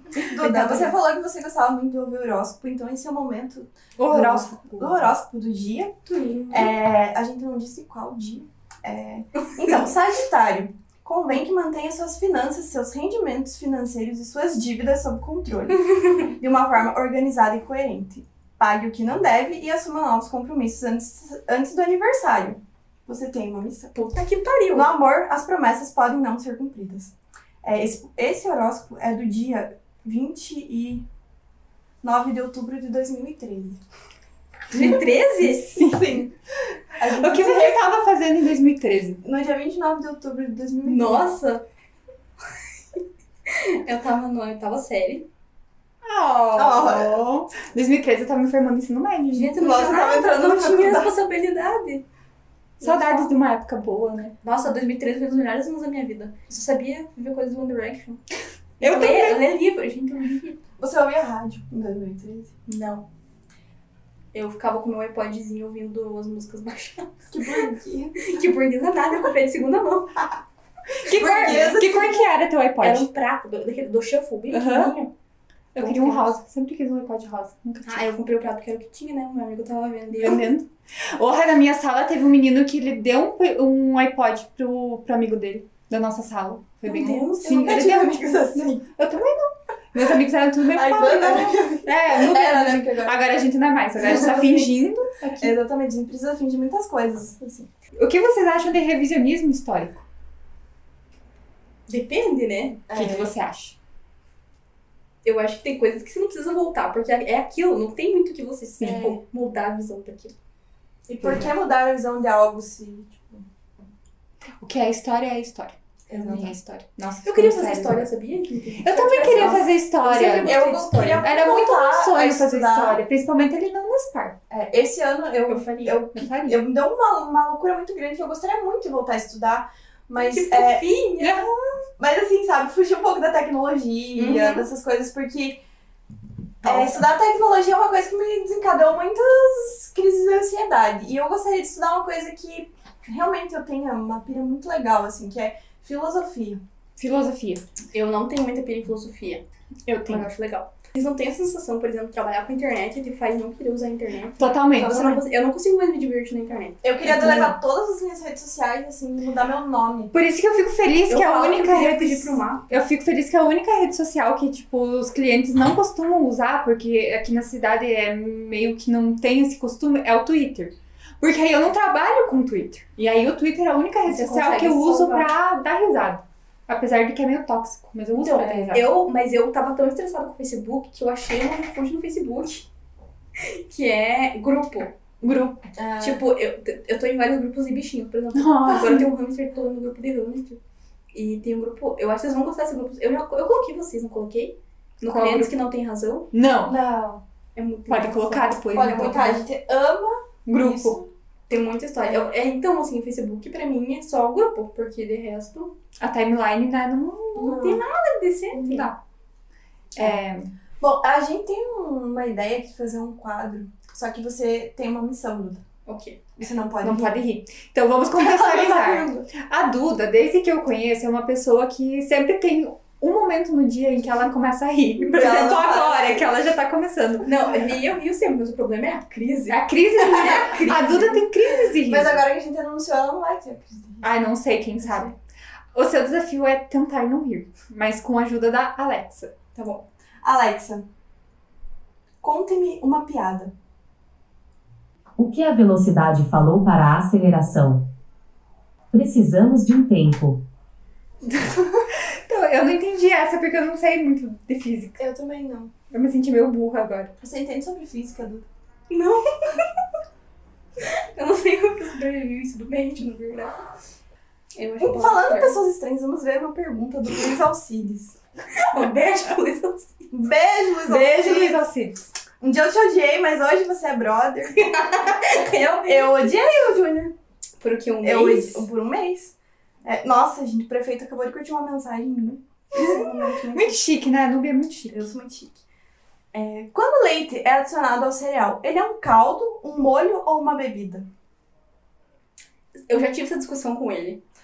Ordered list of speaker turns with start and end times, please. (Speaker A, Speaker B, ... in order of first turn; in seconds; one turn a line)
Speaker A: 0.2-0.9
Speaker B: 0.2-5.9
Speaker A: 4.0-5.1
Speaker C: 6.1-6.7
Speaker B: 6.5-23.9
Speaker C: 15.8-16.3
Speaker C: 23.9-24.9
Speaker B: 24.7-31.1
Speaker B: 32.0-33.8
Speaker C: 34.7-35.7
Speaker A: 34.8-36.2
Speaker B: 35.7-37.9
Speaker A: 37.1-39.2
Speaker B: 39.2-41.3
Speaker C: 40.9-41.6
Speaker C: 43.5-45.3
Speaker A: 46.0-49.6
Speaker B: 46.5-47.2
Speaker C: 49.3-52.0
Speaker B: 49.5-51.1
Speaker C: 52.8-53.3
Speaker A: 52.8-54.4
Speaker C: 54.4-58.2
Speaker A: 58.8-59.4
Speaker C: 58.8-60.6
Speaker B: 60.8-62.5
Speaker C: 62.6-63.1
Speaker C: 64.3-67.2
Speaker B: 67.3-68.2
Speaker C: 68.2-70.2
Speaker B: 71.0-72.2
Speaker A: 71.0-73.1
Speaker C: 72.8-75.1
Speaker A: 74.5-74.9
Speaker A: 75.7-78.1
Speaker C: 75.8-76.4
Speaker C: 77.8-80.5
Speaker A: 80.2-95.5
Speaker C: 86.8-87.8
Speaker B: 87.5-88.9
Speaker B: 90.7-93.2
Speaker B: 94.0-94.7
Speaker B: 95.4-97.7
Speaker A: 98.0-100.0
Speaker C: 101.9-102.8
Speaker B: 102.9-103.3
Speaker A: 102.9-103.8
Speaker C: 105.2-110.3
Speaker B: 108.8-109.2
Speaker B: 111.1-113.4
Speaker A: 114.6-118.1
Speaker B: 116.1-116.5
Speaker C: 117.2-121.3
Speaker A: 118.8-120.6
Speaker B: 120.4-123.0
Speaker A: 121.2-124.4
Speaker B: 124.5-130.9
Speaker C: 125.5-126.0
Speaker A: 126.1-126.6
Speaker C: 130.2-131.5
Speaker A: 131.2-131.5
Speaker B: 132.0-135.6
Speaker C: 134.1-134.7
Speaker C: 136.6-137.0
Speaker B: 136.6-146.6
Speaker A: 147.0-147.6
Speaker C: 147.9-157.5
Speaker A: 149.9-150.3
Speaker A: 154.4-155.2
Speaker B: 156.8-160.2
Speaker A: 157.1-157.5
Speaker A: 160.1-178.9
Speaker C: 161.1-162.7
Speaker C: 174.1-175.3
Speaker C: 178.1-182.7
Speaker B: 178.4-178.7
Speaker C: 183.4-184.9
Speaker A: 185.2-185.6
Speaker B: 185.7-186.2
Speaker C: 186.0-190.6
Speaker A: 188.3-189.1
Speaker C: 191.1-196.3
Speaker A: 195.0-195.5
Speaker A: 196.3-196.8
Speaker B: 196.6-197.2
Speaker C: 197.5-199.4
Speaker A: 197.9-199.4
Speaker B: 198.7-201.1
Speaker A: 200.4-201.0
Speaker C: 201.5-205.8
Speaker A: 206.0-207.8
Speaker C: 207.4-208.9
Speaker A: 208.5-209.0
Speaker A: 209.9-210.5
Speaker B: 210.8-215.6
Speaker C: 215.9-216.2
Speaker B: 216.4-217.2
Speaker A: 216.8-227.3
Speaker B: 218.1-219.3
Speaker B: 225.0-226.3
Speaker C: 227.2-231.3
Speaker A: 229.5-232.2
Speaker B: 231.8-234.0
Speaker A: 234.0-235.1
Speaker C: 234.8-235.1
Speaker A: 235.7-239.3
Speaker C: 239.5-239.9
Speaker B: 240.2-240.9
Speaker B: 242.2-243.5
Speaker D: 245.2-247.9
Speaker D: 248.9-250.4
Speaker A: 252.1-255.0
Speaker B: 255.0-255.7
Speaker A: 255.9-257.1
Speaker B: 257.2-258.5
Speaker C: 258.9-259.7
Speaker C: 260.8-263.6
Speaker C: 264.5-265.6
Speaker B: 264.8-268.1
Speaker C: 268.5-270.0
Speaker B: 270.1-271.6
Speaker A: 270.9-272.1
Speaker B: 272.4-274.7
Speaker C: 274.5-276.4
Speaker B: 275.4-277.1
Speaker C: 277.6-278.7
Speaker B: 278.0-283.8
Speaker A: 282.9-285.0
Speaker B: 284.9-285.6
Speaker B: 286.3-291.1
Speaker C: 292.9-294.2